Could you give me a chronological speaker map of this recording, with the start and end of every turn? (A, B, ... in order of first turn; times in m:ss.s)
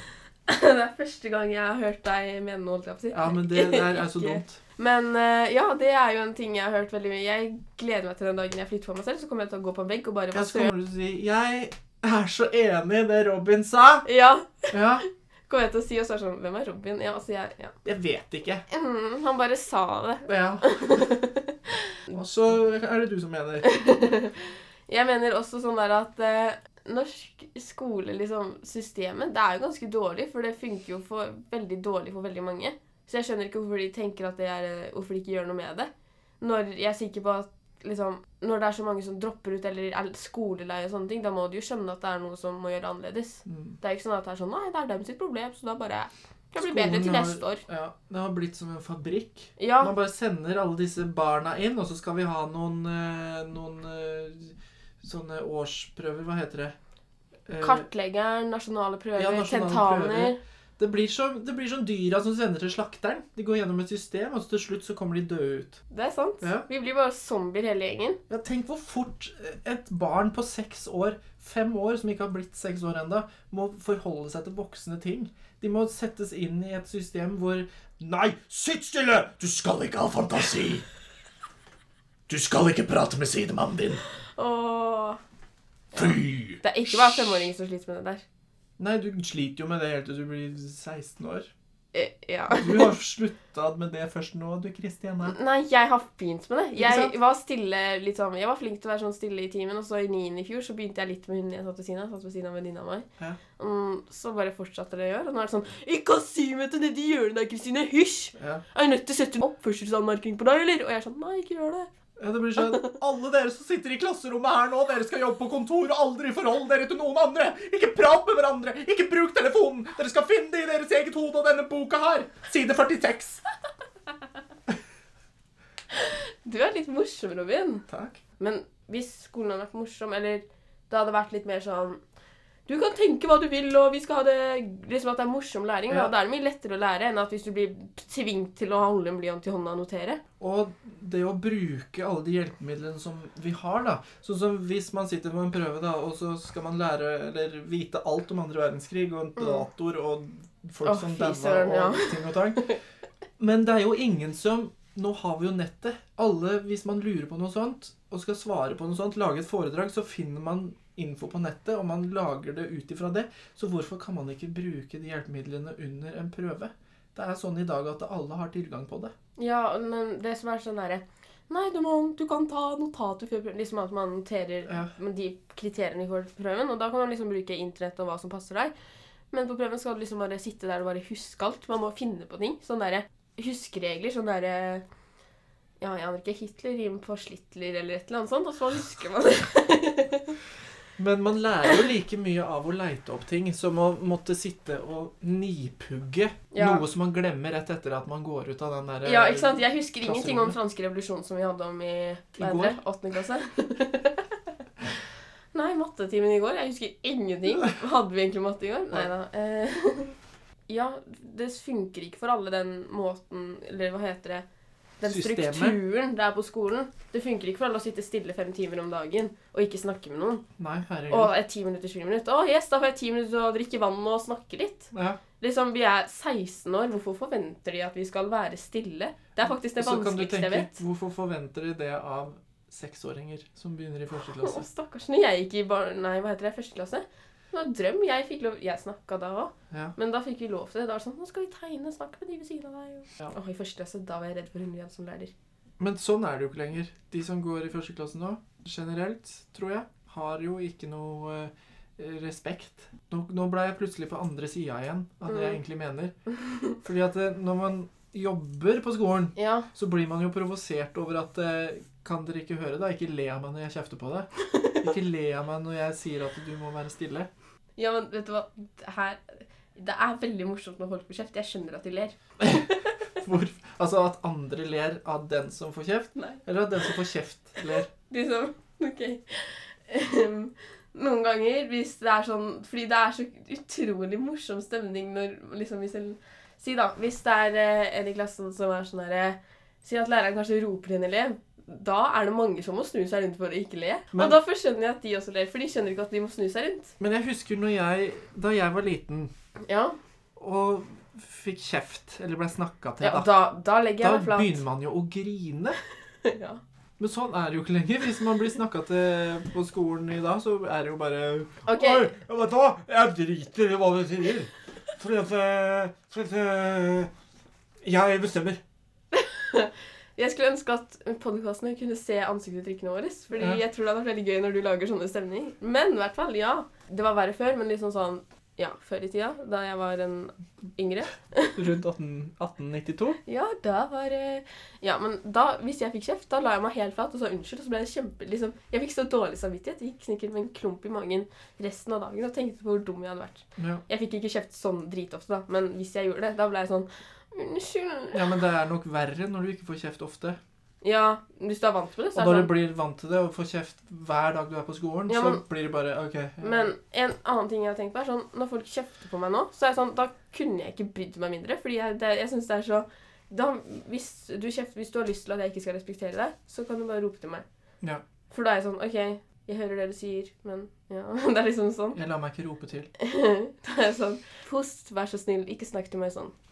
0:00.5-0:10.7 A
0:03.1-0:04.6 B
0:10.3-0:14.1 B
0:14.0-0:17.8 A
0:14.7-0:15.0 B
0:17.8-0:18.6 B
0:18.7-0:22.0 A
0:20.3-0:21.1 B
0:22.1-0:23.8 B
0:23.6-0:47.6 A
0:43.5-0:43.8 B
0:46.6-0:56.8 B
0:49.6-0:49.9 A
0:57.5-0:57.8 B
0:57.6-1:00.4 A
0:59.2-1:05.8 B
1:05.9-1:08.2 A
1:08.3-1:17.7 B
1:18.0-1:20.8 C
1:22.3-1:24.0 C
1:24.4-1:25.2 A
1:25.9-1:28.2 A
1:26.0-1:26.6 C
1:28.8-1:31.5 B
1:31.9-1:32.9 A
1:32.5-1:35.4 B
1:35.2-1:51.9 A
1:36.8-1:37.1 B
1:48.4-1:48.6 B
1:52.2-2:03.4 B
1:52.6-1:52.9 A
2:05.9-2:07.9 A
2:07.9-2:08.2 B
2:08.4-2:12.0 A
2:12.7-2:20.2 A
2:20.4-2:32.8 B
2:29.4-2:29.6 A
2:30.8-2:32.7 A
2:33.4-2:49.1 B
2:49.4-2:58.7 A
2:54.7-2:54.9 B
2:59.3-3:04.8 A
3:05.8-3:10.4 A
3:11.0-3:20.6 B
3:16.5-3:16.8 A
3:19.0-3:24.4 A
3:22.4-3:22.8 B
3:25.5-3:30.2 A
3:30.7-3:34.4 A
3:35.0-3:40.4 A
3:35.0-3:35.8 B
3:40.6-3:41.3 B
3:41.1-3:50.8 A
3:44.9-3:45.2 B
3:49.8-3:54.7 B
3:54.3-4:05.3 A
4:05.8-4:16.2 B
4:15.3-4:15.6 A
4:16.8-4:24.3 B
4:19.4-4:19.7 A
4:24.5-4:24.8 A
4:24.8-4:27.3 B
4:27.8-4:32.6 A
4:32.4-4:37.9 B
4:36.2-4:36.4 A
4:38.1-4:57.0 A
4:54.1-4:54.4 B
4:57.0-4:59.3 B
4:59.6-5:00.0 A
5:00.4-5:03.3 B
5:03.0-5:04.6 A
5:04.0-5:05.8 B
5:06.2-5:06.6 A
5:07.0-5:11.6 B
5:11.7-5:12.1 A
5:11.8-5:17.1 C
5:17.8-5:18.6 C
5:19.1-5:31.6 A
5:23.4-5:23.6 B
5:31.6-5:33.2 B
5:33.3-5:48.2 A
5:43.6-5:43.8 B
5:48.1-5:50.4 B
5:50.8-5:52.5 A
5:52.2-5:56.7 B
5:55.1-5:55.4 A
5:56.4-6:07.4 A
6:08.3-6:12.0 A
6:11.9-6:12.9 B
6:13.0-6:16.3 A